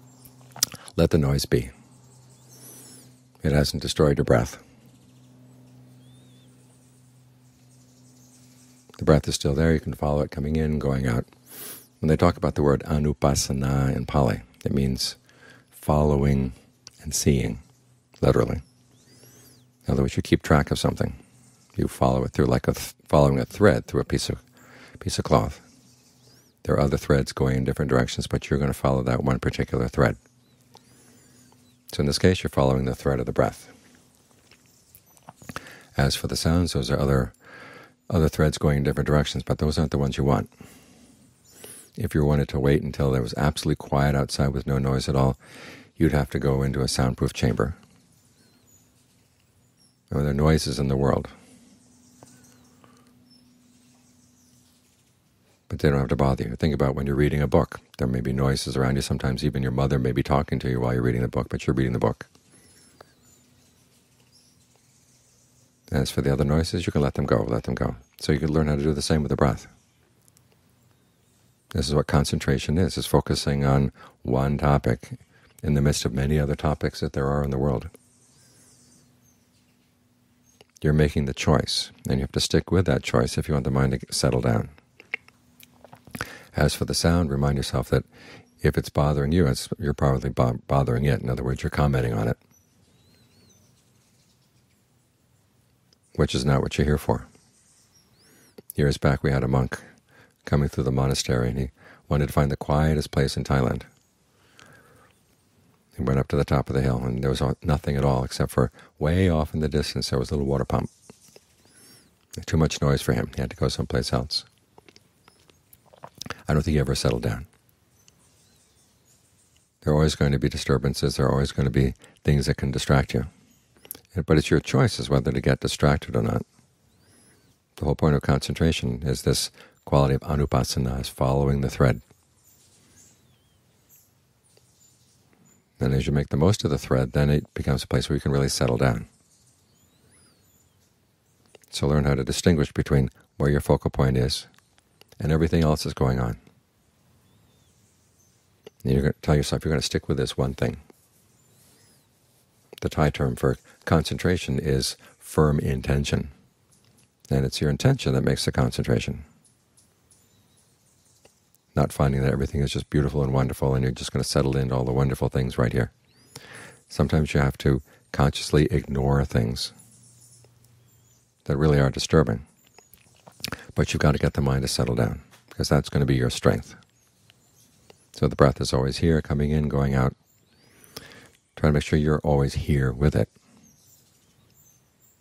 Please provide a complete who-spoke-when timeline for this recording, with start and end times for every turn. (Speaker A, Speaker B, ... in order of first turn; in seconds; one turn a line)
Speaker A: 1.0-1.7
Speaker A: 3.4-4.6
Speaker A: 9.0-11.3
Speaker A: 12.0-15.2
Speaker A: 15.7-17.6
Speaker A: 18.2-18.6
Speaker A: 19.9-21.2
Speaker A: 21.8-24.4
Speaker A: 25.0-25.6
Speaker A: 26.6-30.2
Speaker A: 31.9-33.7
Speaker A: 36.0-37.3
Speaker A: 38.1-40.5
Speaker A: 42.0-45.4
Speaker A: 46.0-47.8
Speaker A: 50.1-51.3
Speaker A: 55.7-62.3
Speaker A: 65.9-69.7
Speaker A: 71.7-77.9
Speaker A: 80.8-84.7
Speaker A: 86.5-88.1
Speaker A: 88.6-92.4
Speaker A: 96.2-97.3
Speaker A: 98.8-99.8
Speaker A: 100.5-103.9
Speaker A: 106.0-110.9
Speaker A: 112.4-114.5
Speaker A: 116.5-117.5
Speaker A: 119.8-123.3
Speaker A: 124.1-126.5
Speaker A: 127.8-132.0
Speaker A: 135.8-139.1
Speaker A: 141.7-144.5
Speaker A: 145.2-146.4
Speaker A: 148.8-150.8
Speaker A: 152.8-156.3
Speaker A: 157.3-159.2
Speaker A: 161.8-165.9
Speaker A: 166.9-169.7
Speaker A: 171.4-172.4
Speaker A: 173.8-176.8
Speaker A: 178.2-180.2
Speaker A: 181.6-183.3